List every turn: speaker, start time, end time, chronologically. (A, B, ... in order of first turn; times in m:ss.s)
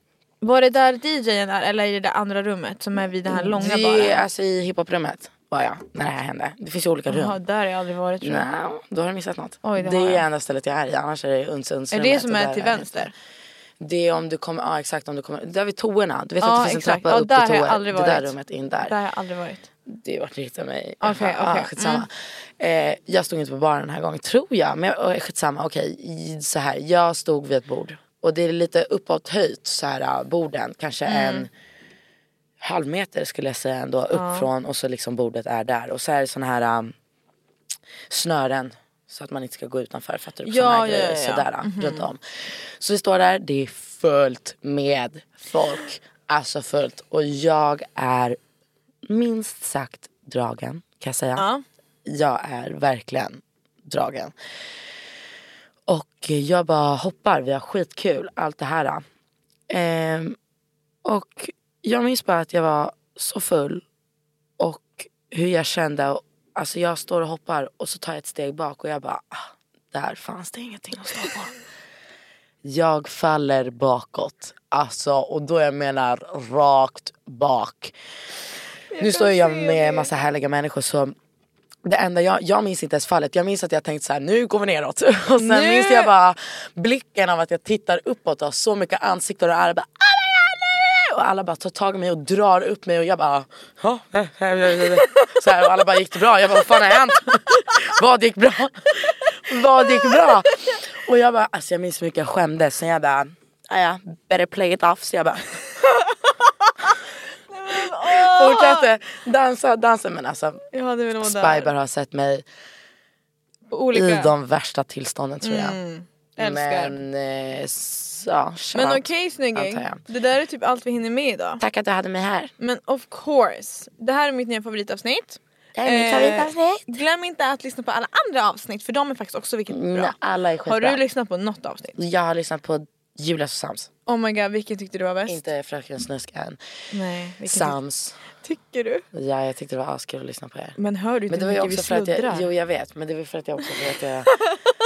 0:00.4-0:04.2 A
0:03.3-0:07.4 B
0:07.1-0:08.4 A
0:08.2-0:13.1 B
0:09.6-0:10.2 A
0:11.9-0:13.1 A
0:13.8-0:18.9 B
0:16.4-0:19.7 A
0:19.8-0:31.5 B
0:21.0-0:22.0 A
0:31.0-0:31.5 A
0:32.6-0:36.9 B
0:34.1-0:34.5 A
0:38.1-0:48.4 B
0:40.4-0:42.1 A
0:49.0-0:51.4 B
0:51.4-0:51.6 A
0:52.0-0:54.3 B
0:55.9-0:59.0 B
0:59.7-1:00.4 B
1:01.0-1:03.8 B
1:04.6-1:11.5 B
1:12.6-1:17.9 B
1:18.9-1:20.1 A
1:19.0-1:21.1 B
1:21.8-1:45.6 B
1:25.4-1:26.1 A
1:40.0-1:40.3 A
1:46.4-1:46.9 A
1:47.5-1:48.9 A
1:47.7-1:50.6 B
1:50.7-1:51.7 A
1:51.2-1:52.4 B
1:53.7-1:54.3 A
1:53.9-1:55.8 B
1:55.4-1:57.0 A
1:56.4-2:00.0 B
1:58.7-2:01.6 A
2:01.6-2:02.5 B
2:02.6-2:12.0 A
2:05.7-2:06.9 B
2:09.7-2:11.0 B
2:12.0-2:13.9 B
2:14.0-2:15.4 A
2:15.2-2:16.6 B
2:16.9-2:17.8 A
2:17.5-2:18.2 B
2:18.4-2:19.0 A
2:19.1-2:20.8 B
2:20.8-2:22.5 A
2:21.3-2:24.3 B
2:24.3-2:24.6 A